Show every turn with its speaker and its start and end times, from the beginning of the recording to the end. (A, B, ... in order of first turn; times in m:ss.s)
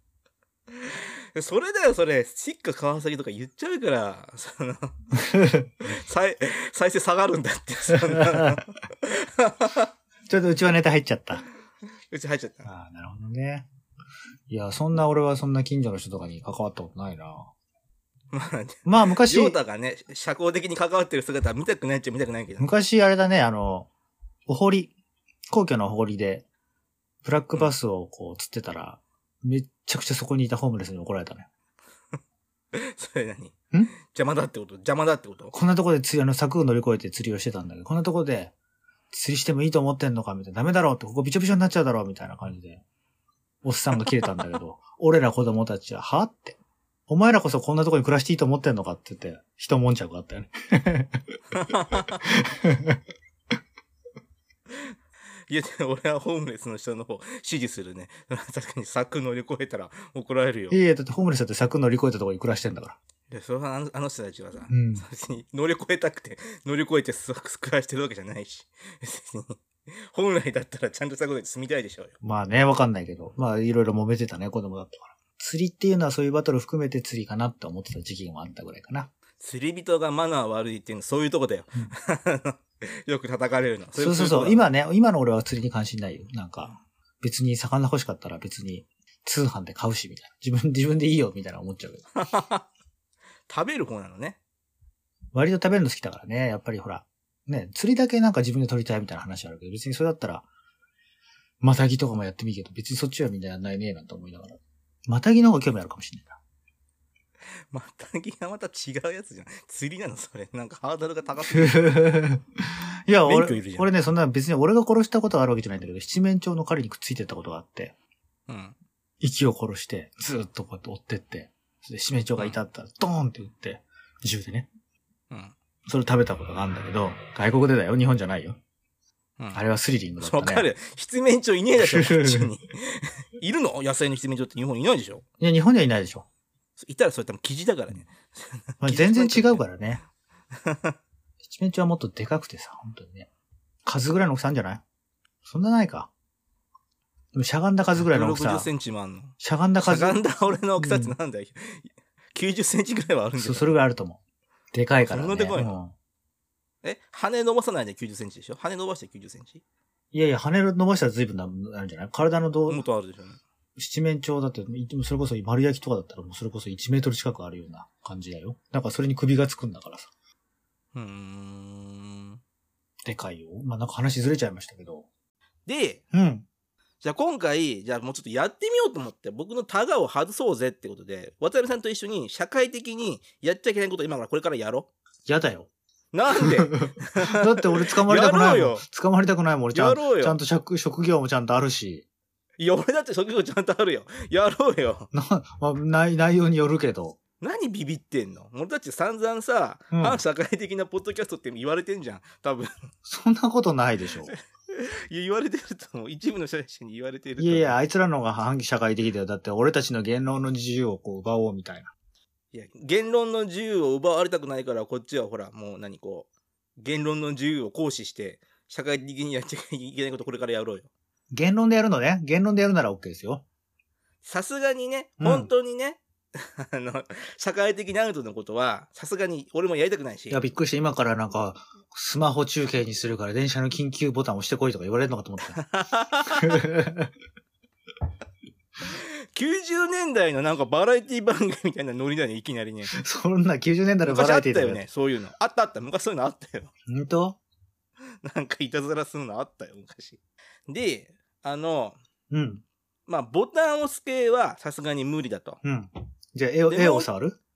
0:00.7-0:05.0 A
0:05.2-0:05.7 B
0:05.8-0:09.9 A
0:08.2-0:08.5 B
0:10.3-0:11.4 B
0:12.1-0:12.7 A
0:12.6-0:13.7 B
0:14.5-0:17.5 B
0:18.3-0:22.7 A
0:18.8-0:19.6 B
0:22.6-0:23.9 B
0:24.5-0:24.9 B
0:25.5-0:26.4 B
0:27.2-0:31.5 B
0:32.7-0:35.6 A
0:35.5-0:38.5 B
0:39.1-0:42.8 B
0:43.6-0:51.2 B
0:51.5-0:52.2 A
0:52.2-0:53.0 B
0:55.5-1:00.8 A
1:00.7-1:03.0 B
1:03.3-1:12.2 A
1:04.7-1:05.0 B
1:12.2-1:19.1 B
1:19.4-1:24.7 A
1:24.0-1:32.0 B
1:32.2-1:32.7 A
1:33.5-1:34.4 A
1:35.3-1:40.4 B
1:41.6-1:46.4 B
1:47.7-1:52.0 A
1:51.5-1:52.4 B
1:53.1-1:57.9 B
1:53.2-1:53.9 A
1:58.5-1:58.8 A
1:59.2-2:04.7 B
2:05.9-2:08.6 B
2:09.5-2:10.7 B
2:10.2-2:15.2 A
2:11.8-2:12.5 B
2:15.4-2:16.3 B
2:16.8-2:19.6 A
2:18.8-2:20.0 B
2:20.6-2:21.0 A
2:21.4-2:23.3 B
2:23.8-2:24.8 B
2:25.4-2:26.1 B
2:27.3-2:28.7 B
2:28.0-2:33.8 A
2:29.4-2:30.2 B
2:30.8-2:31.2 B
2:33.4-2:34.2 B
2:34.7-2:35.9 B
2:35.1-2:35.8 A
2:36.8-2:39.6 A
2:40.1-2:42.8 B
2:42.7-2:43.4 A
2:43.8-2:50.1 B
2:50.9-2:52.4 A
2:53.1-2:55.1 B
2:55.7-2:56.0 A
2:56.1-2:56.5 B
2:57.0-3:04.9 A
3:05.3-3:05.7 B
3:06.1-3:08.8 A
3:06.4-3:12.0 B
3:09.7-3:10.4 A
3:12.6-3:15.1 A
3:15.1-3:17.2 B
3:17.4-3:22.7 A
3:19.9-3:20.2 B
3:23.0-3:24.3 B
3:24.3-3:27.8 A
3:27.4-3:31.9 B
3:32.5-3:36.3 A
3:36.8-3:40.9 A
3:41.3-3:43.4 B
3:44.2-3:50.4 A
3:45.2-3:45.5 B
3:50.3-3:55.6 B
3:55.6-3:56.6 A
3:56.4-3:57.1 B
3:58.8-4:02.9 A
4:02.9-4:04.8 B
4:04.0-4:06.7 A
4:06.9-4:07.4 B
4:08.2-4:12.0 A
4:12.3-4:12.6 B
4:13.1-4:15.6 A
4:15.6-4:17.4 B
4:16.7-4:17.1 A